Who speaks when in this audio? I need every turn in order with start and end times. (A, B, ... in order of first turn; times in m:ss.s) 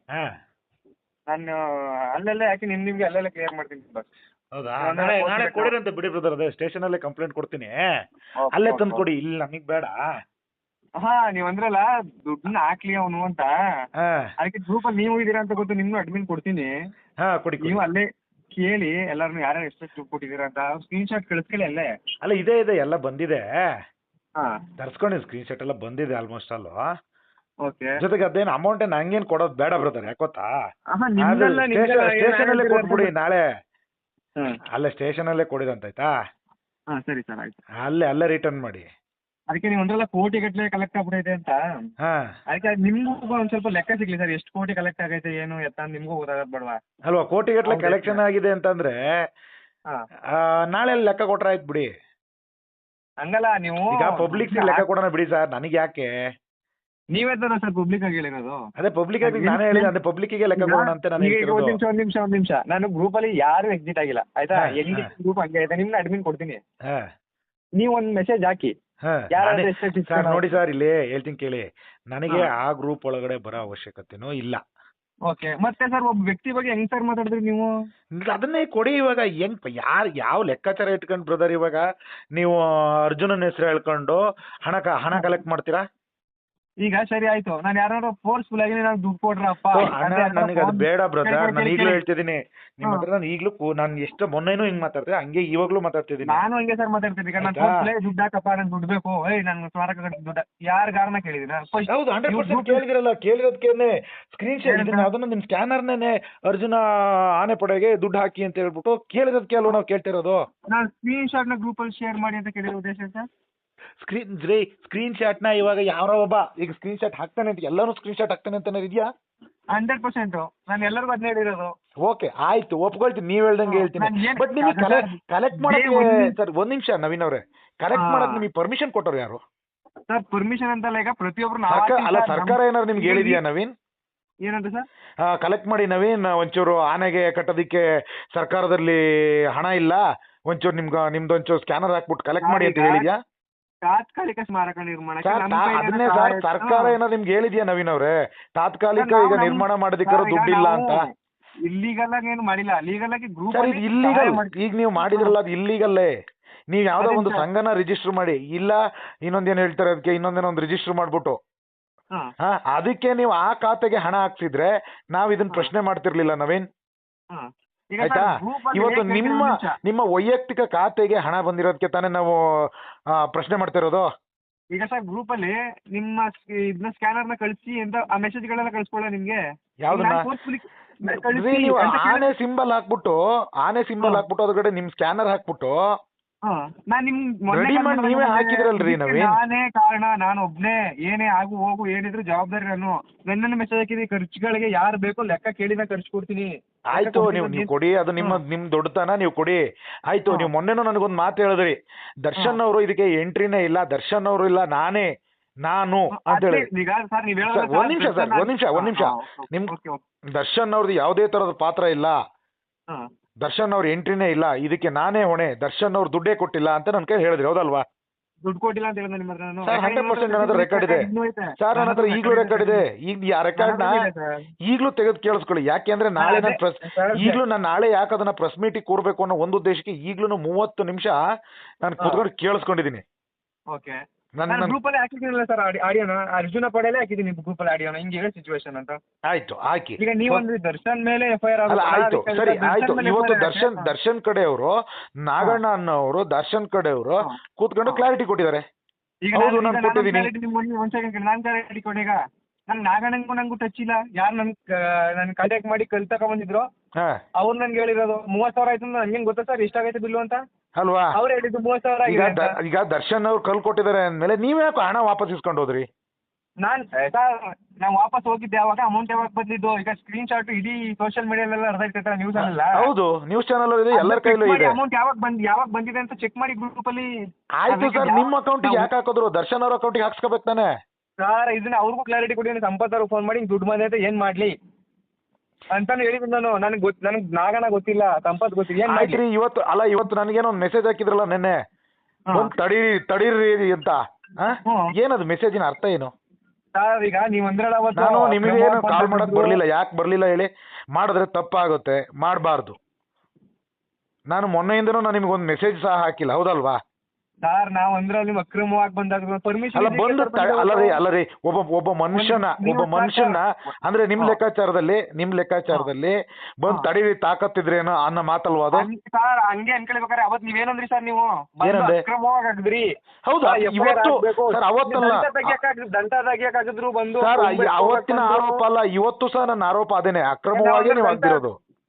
0:01.3-0:04.1 A
0:04.5-0:07.8 B
0:04.8-0:05.7 A
0:08.4-0:09.0 A
0:08.5-0:10.0 B
0:11.0-0:13.6 A
0:14.0-0:14.3 B
0:14.4-0:16.7 A
0:17.2-0:17.8 B
0:17.6-0:18.1 A
0:18.6-0:21.9 A
0:22.2-0:23.4 B
0:24.8-0:26.8 B
0:27.6-0:28.0 A
0:28.0-0:30.5 B
0:30.9-0:33.1 A
0:31.2-0:33.4 B
0:34.8-0:36.1 B
0:36.9-0:37.6 A
0:37.8-0:38.9 B
0:39.5-0:41.6 A
0:42.0-0:42.3 B
0:42.5-0:46.8 A
0:47.1-0:49.0 B
0:47.6-0:48.2 A
0:50.3-0:51.9 B
0:53.2-0:54.8 A
0:53.9-0:56.1 B
0:57.1-0:58.6 A
0:58.8-1:01.8 B
0:59.2-0:59.9 A
1:00.6-1:06.6 A
1:04.6-1:05.1 B
1:07.8-1:08.7 A
1:09.0-1:14.6 B
1:09.3-1:10.5 A
1:15.3-1:17.7 A
1:18.2-1:25.8 B
1:26.8-1:32.0 A
1:29.7-1:36.4 B
1:36.2-1:42.8 A
1:37.4-1:37.8 B
1:41.9-1:50.4 B
1:44.6-1:45.1 A
1:50.7-1:53.3 A
1:54.0-1:59.1 B
1:59.7-2:01.7 A
2:02.0-2:09.4 B
2:03.7-2:06.3 A
2:07.9-2:08.4 A
2:10.1-2:13.4 A
2:11.7-2:13.7 B
2:14.4-2:14.9 A
2:15.2-2:23.2 B
2:22.4-2:23.1 A
2:23.8-2:27.0 A
2:25.2-2:31.0 B
2:29.0-2:31.1 A
2:31.6-2:35.3 A
2:33.5-2:36.1 B
2:36.7-2:41.4 B
2:37.0-2:37.5 A
2:42.4-2:46.7 B
2:47.3-2:49.8 A
2:48.0-2:54.1 B
2:54.7-2:59.4 A
2:59.8-3:00.3 B
2:59.9-3:02.3 A
3:01.0-3:05.8 B
3:06.4-3:18.4 A
3:07.5-3:09.4 B
3:16.9-3:25.1 B
3:25.6-3:26.7 B
3:26.2-3:30.0 A
3:27.5-3:29.7 B
3:30.3-3:32.2 B
3:33.4-3:37.9 B
3:38.4-3:42.8 A
3:39.7-3:41.1 B
3:41.6-3:44.0 B
3:43.6-3:44.5 A
3:44.6-3:51.2 B
3:46.2-3:47.4 A
3:51.8-3:53.0 B
3:53.7-3:54.0 A
3:54.4-3:54.8 B
3:54.5-3:59.0 A
3:59.3-4:00.4 B
4:00.0-4:03.9 A
4:01.7-4:08.6 B
4:07.2-4:08.0 A
4:09.2-4:16.7 A
4:09.3-4:10.3 B
4:17.4-4:20.4 A
4:20.8-4:21.1 B
4:21.2-4:22.6 A
4:22.1-4:25.9 B
4:26.6-4:32.9 A
4:32.4-4:34.8 B
4:33.9-4:37.1 A
4:37.6-4:40.7 B
4:37.7-4:38.9 A
4:41.2-4:44.5 A
4:45.7-4:49.2 A
4:48.9-4:51.6 B
4:52.3-4:56.1 B
4:54.7-4:54.9 A
4:56.8-4:59.6 A
4:58.0-5:02.8 B
5:04.3-5:06.8 B
5:07.4-5:11.0 A
5:09.8-5:18.9 B
5:12.1-5:13.4 A
5:18.7-5:22.9 A
5:21.6-5:22.0 B
5:23.3-5:25.6 B
5:23.4-5:28.6 A
5:27.2-5:31.6 B
5:30.5-5:31.4 A